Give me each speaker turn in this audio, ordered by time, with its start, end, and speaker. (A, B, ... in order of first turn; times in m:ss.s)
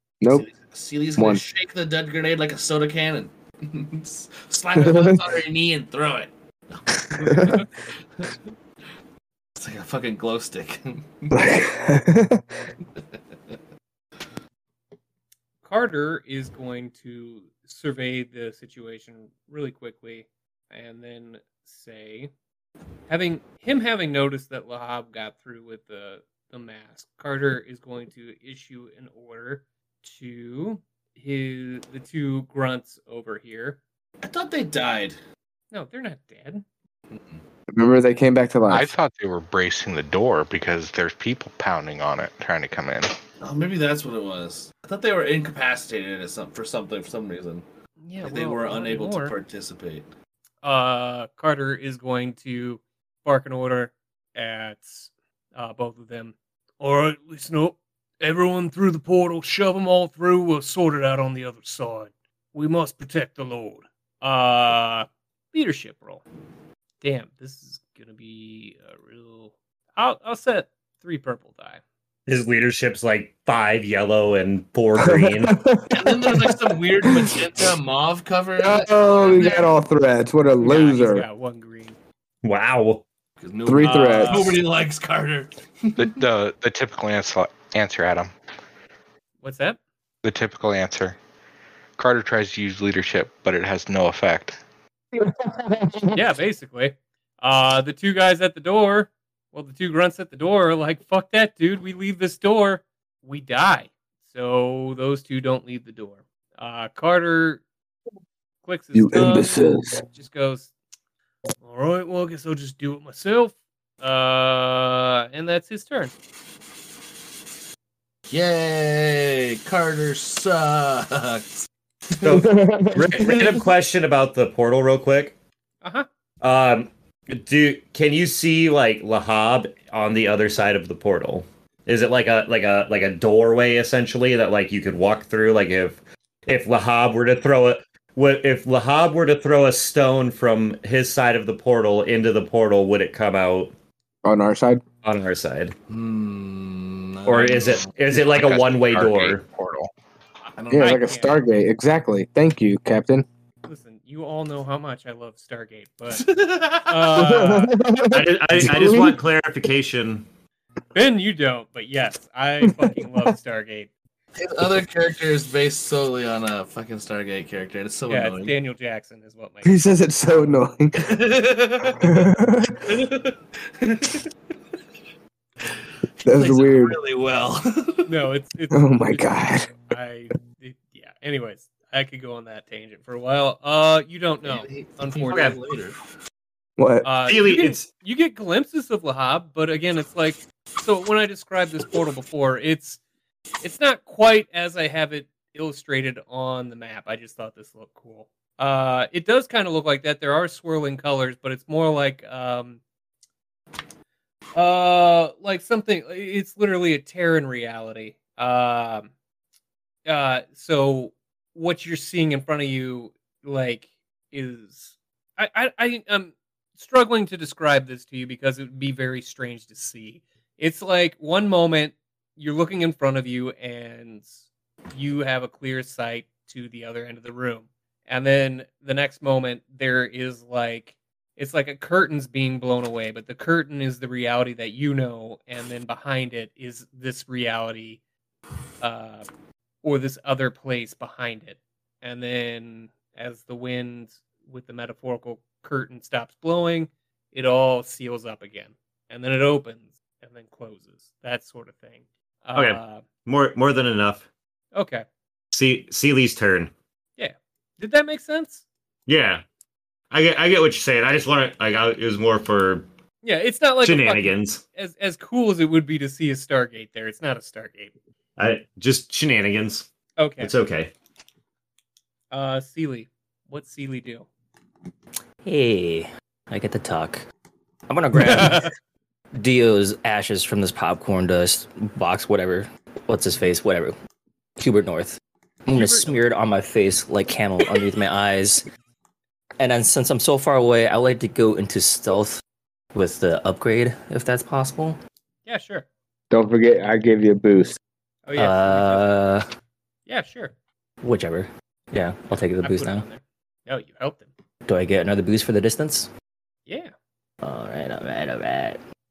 0:00.2-0:00.5 A
0:00.3-0:07.6 B
0:01.2-0:01.4 A
0:04.8-0:05.2 A
0:07.0-0:07.6 A
0:07.4-0:07.7 C
0:09.6-0:11.4 B
0:11.3-0:12.4 A
0:13.0-0:13.5 B
0:15.6-0:22.3 C
0:23.1-0:33.8 C
0:34.2-0:35.2 B
0:35.7-0:36.6 C
0:37.1-0:37.4 B
0:37.7-0:38.9 A
0:38.7-0:43.1 D
0:43.4-0:47.6 B
0:48.0-0:49.4 C
0:48.2-0:50.1 B
0:50.6-1:06.2 C
1:07.0-1:11.8 C
1:12.3-1:15.6 E
1:15.0-1:17.4 A
1:15.9-1:19.8 B
1:18.6-1:21.3 A
1:19.3-1:19.6 C
1:20.6-1:22.0 C
1:22.4-1:23.0 E
1:23.4-1:26.2 B
1:23.7-1:24.5 A
1:23.8-1:24.6 C
1:26.0-1:28.3 D
1:29.4-1:29.8 C
1:30.2-1:31.2 D
1:32.0-1:34.6 D
1:35.2-1:36.2 A
1:36.2-1:47.6 C
1:48.6-1:50.7 C
1:48.9-1:50.0 A
1:51.6-1:56.1 C
1:58.3-2:02.4 B
2:02.2-2:05.4 E
2:02.3-2:03.5 A
2:03.1-2:03.6 B
2:05.8-2:06.1 C
2:06.4-2:23.7 E
2:24.2-2:24.8 A
2:25.0-2:25.8 E
2:25.9-2:28.0 B
2:27.3-2:29.4 E
2:28.1-2:29.9 D
2:30.6-2:31.0 B
2:30.7-2:33.2 A
2:30.7-2:31.4 C
2:33.7-2:36.3 C
2:36.1-2:37.0 B
2:36.9-2:37.8 C
2:37.2-2:39.2 A
2:38.1-2:40.3 E
2:40.9-2:43.9 C
2:44.4-2:48.5 B
2:48.1-2:50.6 C
2:49.6-2:51.2 A
2:51.0-2:52.1 B
2:52.0-2:52.8 A
2:52.8-2:54.2 B
2:55.7-2:58.1 B
2:56.2-2:57.0 A
2:58.1-3:05.6 C
2:58.7-2:59.7 A
3:04.4-3:06.0 B
3:05.3-3:05.6 E
3:06.8-3:07.1 A
3:07.0-3:13.0 C
3:07.2-3:07.9 E
3:13.6-3:22.8 C
3:24.6-3:29.1 C
3:30.1-3:44.4 C
3:44.9-3:58.0 C
3:58.8-3:59.3 C
3:59.8-4:13.0 C
4:12.6-4:14.3 E
4:14.7-4:15.1 C
4:15.5-4:16.7 E
4:17.2-4:18.6 C
4:19.1-4:19.4 E
4:20.1-4:22.9 E
4:23.2-4:27.9 C
4:23.8-4:24.6 E
4:28.4-4:29.9 E
4:30.2-4:30.6 C
4:30.4-4:30.9 E
4:32.3-4:34.3 C
4:35.4-4:37.2 F
4:37.9-4:38.7 F
4:38.2-4:38.7 C
4:39.4-4:44.0 F
4:44.6-4:48.6 F
4:45.7-4:46.2 C
4:49.6-4:52.4 F
4:52.9-4:55.0 F
4:55.5-4:55.9 C
4:56.3-4:57.8 A
4:58.3-4:59.1 C
4:58.4-4:59.5 F
5:00.1-5:00.6 C
5:01.0-5:03.1 F
5:02.3-5:04.3 C
5:04.7-5:06.1 F
5:06.7-5:06.9 C
5:07.4-5:08.8 F